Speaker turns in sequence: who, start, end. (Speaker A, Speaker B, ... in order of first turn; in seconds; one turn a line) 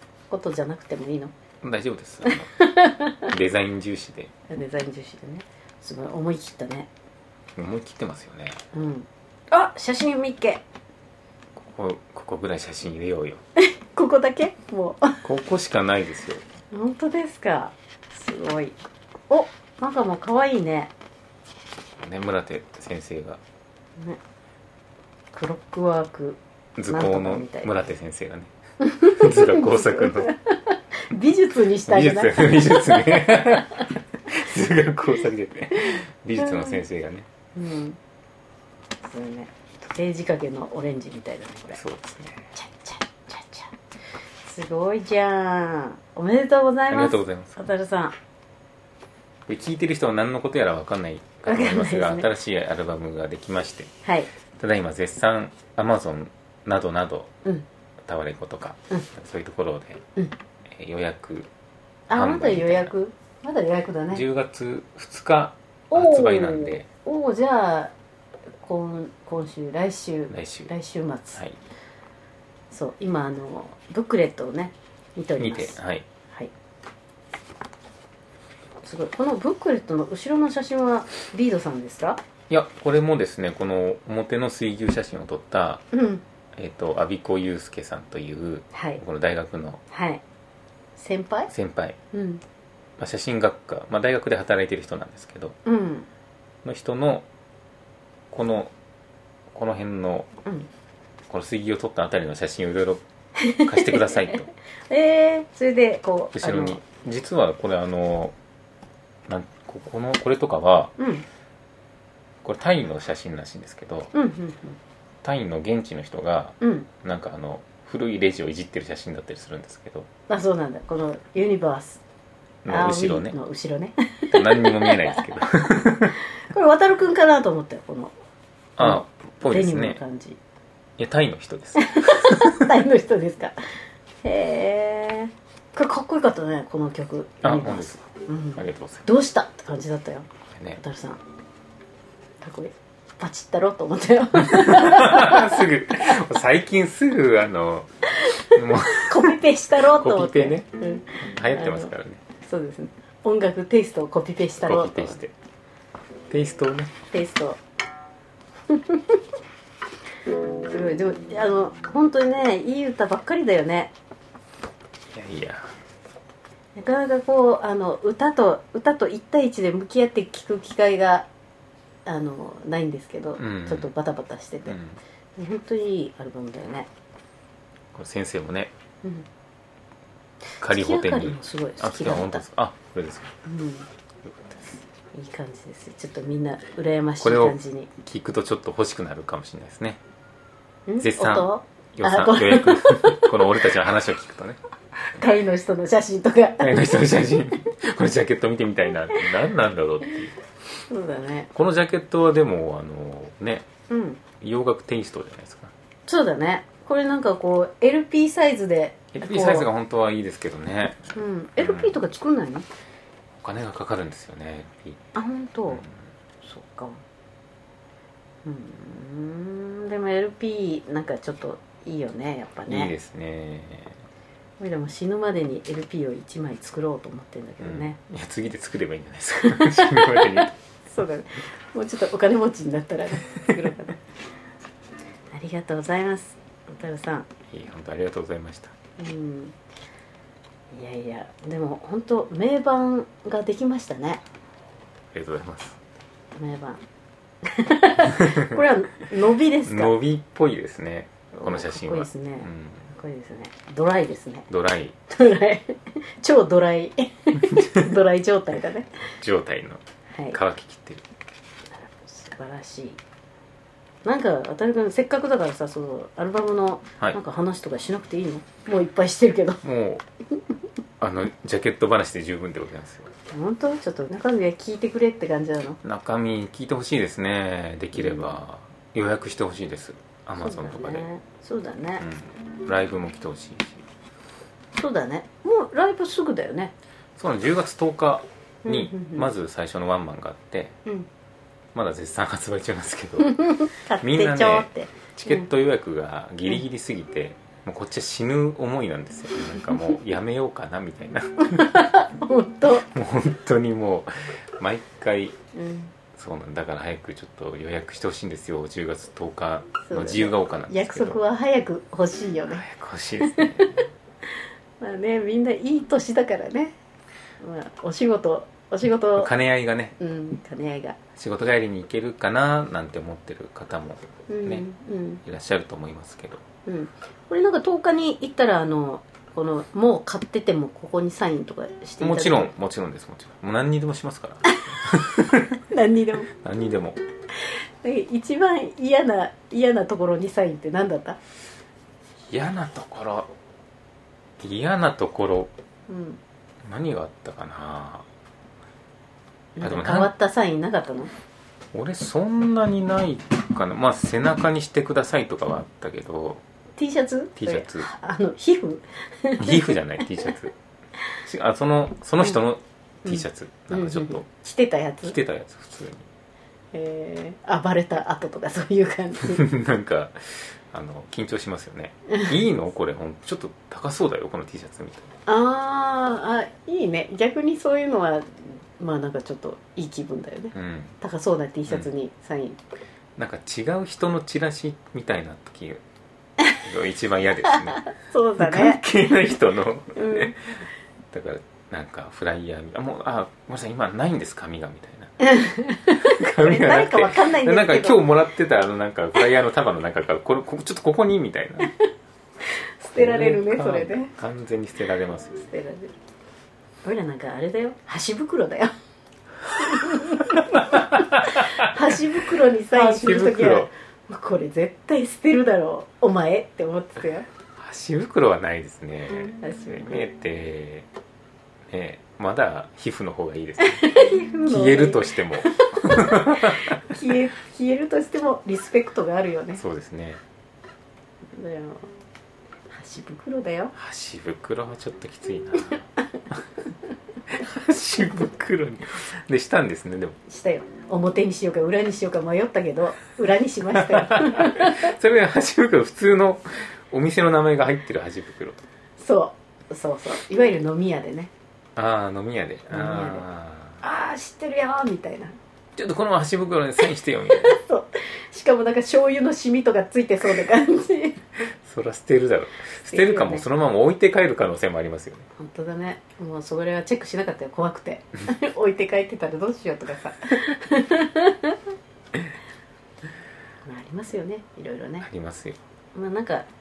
Speaker A: 0.3-1.3
Speaker B: 1.6-2.5
Speaker A: 2.3-3.3
Speaker B: 3.3-4.3
Speaker A: 4.5-6.9
Speaker B: 7.6-8.6
Speaker A: 8.7-10.6
Speaker B: 11.6-13.4
Speaker A: 13.6-15.2
Speaker B: 15.2-16.4
Speaker A: 16.7-18.8
Speaker A: 19.3-20.9
Speaker B: 22.0-23.4
Speaker A: 25.3-26.4
Speaker B: 26.8-28.5
Speaker A: 26.9-27.8
Speaker A: 28.8-33.8
Speaker B: 29.1-30.3
Speaker B: 31.9-37.3
Speaker A: 35.9-36.8
Speaker A: 37.5-38.0
Speaker A: 39.0-41.8
Speaker B: 41.8-42.5
Speaker A: 42.5-43.7
Speaker A: 44.4-48.1
Speaker B: 46.9-47.6
Speaker B: 49.5-53.9
Speaker A: 51.5-52.3
Speaker B: 54.6-57.3
Speaker B: 58.0-60.0
Speaker B: 60.7-61.5
Speaker A: 62.1-64.2
Speaker B: 62.1-62.9
Speaker B: 64.1-66.9
Speaker A: 65.9-67.9
Speaker A: 68.6-71.4
Speaker B: 70.3-70.7
Speaker A: 72.7-75.8
Speaker B: 75.4-76.1
Speaker A: 78.8-82.2
Speaker B: 82.5-85.8
Speaker A: 85.9-86.2
Speaker B: 86.5-89.8
Speaker A: 88.7-89.0
Speaker A: 89.9-90.2
Speaker A: 91.0-91.5
Speaker B: 91.5-92.0
Speaker A: 92.1-92.4
Speaker B: 93.0-95.6
Speaker A: 95.7-96.1
Speaker B: 96.6-97.3
Speaker B: 98.3-98.7
Speaker B: 99.5-100.3
Speaker B: 101.3-103.0
Speaker A: 103.4-104.4
Speaker B: 103.6-104.5
Speaker A: 104.9-106.8
Speaker B: 106.3-108.3
Speaker B: 109.3-110.9
Speaker A: 111.0-111.2
Speaker B: 112.4-114.1
Speaker A: 114.1-114.8
Speaker B: 115.2-120.1
Speaker A: 116.6-116.9
Speaker A: 120.3-122.0
Speaker B: 122.7-123.4
Speaker A: 122.7-125.2
Speaker B: 124.3-126.2
Speaker A: 126.5-128.1
Speaker B: 128.8-130.0
Speaker A: 128.8-130.4
Speaker B: 131.0-132.7
Speaker A: 131.8-133.6
Speaker A: 134.2-141.2
Speaker B: 137.4-139.1
Speaker A: 142.4-145.7
Speaker B: 144.4-147.9
Speaker B: 148.5-149.3
Speaker A: 148.6-155.2
Speaker B: 149.9-150.7
Speaker B: 151.2-152.2
Speaker B: 154.6-155.3
Speaker B: 156.3-156.9
Speaker A: 157.1-157.6
Speaker A: 158.7-159.2
Speaker A: 160.7-163.9
Speaker B: 165.1-165.7
Speaker A: 166.8-171.3
Speaker A: 172.1-174.8
Speaker B: 173.4-173.9
Speaker B: 174.7-175.0
Speaker A: 175.4-176.9
Speaker B: 177.9-178.7
Speaker B: 180.6-183.3
Speaker A: 180.7-182.4
Speaker A: 183.5-183.9
Speaker B: 184.2-184.8
Speaker A: 185.1-187.9
Speaker B: 187.2-190.0
Speaker A: 190.9-193.6
Speaker B: 191.0-194.6
Speaker A: 195.1-197.0
Speaker B: 196.6-200.3
Speaker A: 200.9-201.5
Speaker B: 201.5-203.7
Speaker A: 203.9-204.2
Speaker B: 204.4-205.7
Speaker A: 206.1-209.7
Speaker B: 209.2-212.0
Speaker A: 211.2-212.7
Speaker B: 213.4-215.0
Speaker A: 215.2-215.8
Speaker B: 215.7-215.9
Speaker A: 216.4-217.0
Speaker A: 218.4-222.9
Speaker B: 222.7-224.0
Speaker A: 224.6-228.0
Speaker B: 227.6-230.5
Speaker A: 229.4-234.0
Speaker A: 235.3-237.3
Speaker B: 237.5-238.7
Speaker A: 239.0-239.6
Speaker A: 240.7-244.2
Speaker B: 245.1-245.8
Speaker A: 246.3-246.8
Speaker A: 247.4-249.9
Speaker B: 249.7-252.9
Speaker A: 251.3-254.5
Speaker B: 254.5-255.0
Speaker A: 255.1-258.9
Speaker B: 259.2-261.1
Speaker A: 260.1-260.4
Speaker A: 261.8-263.0
Speaker A: 264.0-269.6
Speaker B: 269.6-270.1
Speaker B: 271.0-273.1
Speaker A: 273.3-275.8
Speaker B: 275.8-281.1
Speaker A: 277.9-278.3
Speaker A: 280.4-282.1
Speaker B: 282.0-283.8
Speaker A: 284.8-286.7
Speaker B: 287.2-290.8
Speaker A: 288.6-289.3
Speaker B: 291.8-293.4
Speaker A: 293.2-295.5
Speaker B: 294.0-301.8
Speaker A: 301.5-302.9
Speaker B: 302.9-305.4
Speaker A: 305.5-305.9
Speaker B: 306.2-311.2
Speaker A: 309.9-312.6
Speaker B: 312.5-313.9
Speaker A: 313.2-313.8
Speaker A: 314.8-316.8
Speaker A: 317.4-319.3
Speaker B: 319.2-319.9
Speaker A: 320.0-321.0
Speaker B: 321.2-324.6
Speaker A: 324.3-325.2
Speaker B: 325.2-326.4
Speaker A: 326.7-332.5
Speaker B: 332.0-335.6
Speaker A: 335.7-336.3
Speaker B: 336.3-337.0
Speaker A: 337.8-341.2
Speaker B: 342.3-343.3
Speaker B: 344.4-345.5
Speaker A: 345.9-346.2
Speaker B: 346.6-348.1
Speaker A: 349.6-351.1
Speaker B: 349.6-350.1
Speaker B: 351.7-356.4
Speaker A: 356.8-359.8
Speaker B: 357.4-357.9
Speaker B: 359.4-360.5
Speaker B: 361.2-364.3
Speaker A: 363.1-365.1
Speaker B: 365.0-366.1
Speaker A: 366.7-369.5
Speaker B: 369.2-375.1
Speaker A: 372.1-372.3
Speaker A: 375.3-382.6
Speaker B: 380.5-381.0
Speaker B: 383.2-385.8
Speaker B: 386.6-387.8
Speaker A: 387.7-388.8
Speaker B: 388.4-395.1
Speaker A: 389.9-390.4
Speaker A: 395.2-398.0
Speaker B: 395.9-401.7
Speaker A: 402.8-404.1
Speaker B: 402.9-405.4
Speaker A: 405.4-405.9
Speaker A: 406.8-408.7
Speaker A: 409.6-417.3
Speaker B: 410.3-411.9
Speaker B: 412.7-413.7
Speaker B: 417.6-420.9
Speaker A: 419.4-420.0
Speaker B: 421.7-423.9
Speaker A: 423.6-429.6
Speaker B: 424.4-426.8
Speaker B: 429.6-430.2
Speaker A: 431.4-431.9
Speaker A: 432.7-433.7
Speaker B: 433.8-436.4
Speaker B: 437.3-440.2
Speaker A: 440.3-444.9
Speaker B: 443.8-448.6
Speaker A: 449.0-451.3
Speaker B: 451.8-453.8
Speaker A: 452.7-453.2
Speaker A: 453.8-455.4
Speaker B: 455.8-457.6
Speaker A: 457.4-461.2
Speaker B: 461.6-465.3
Speaker A: 462.9-463.4
Speaker A: 465.4-471.6
Speaker A: 473.6-475.1
Speaker B: 475.0-475.6
Speaker A: 475.9-476.5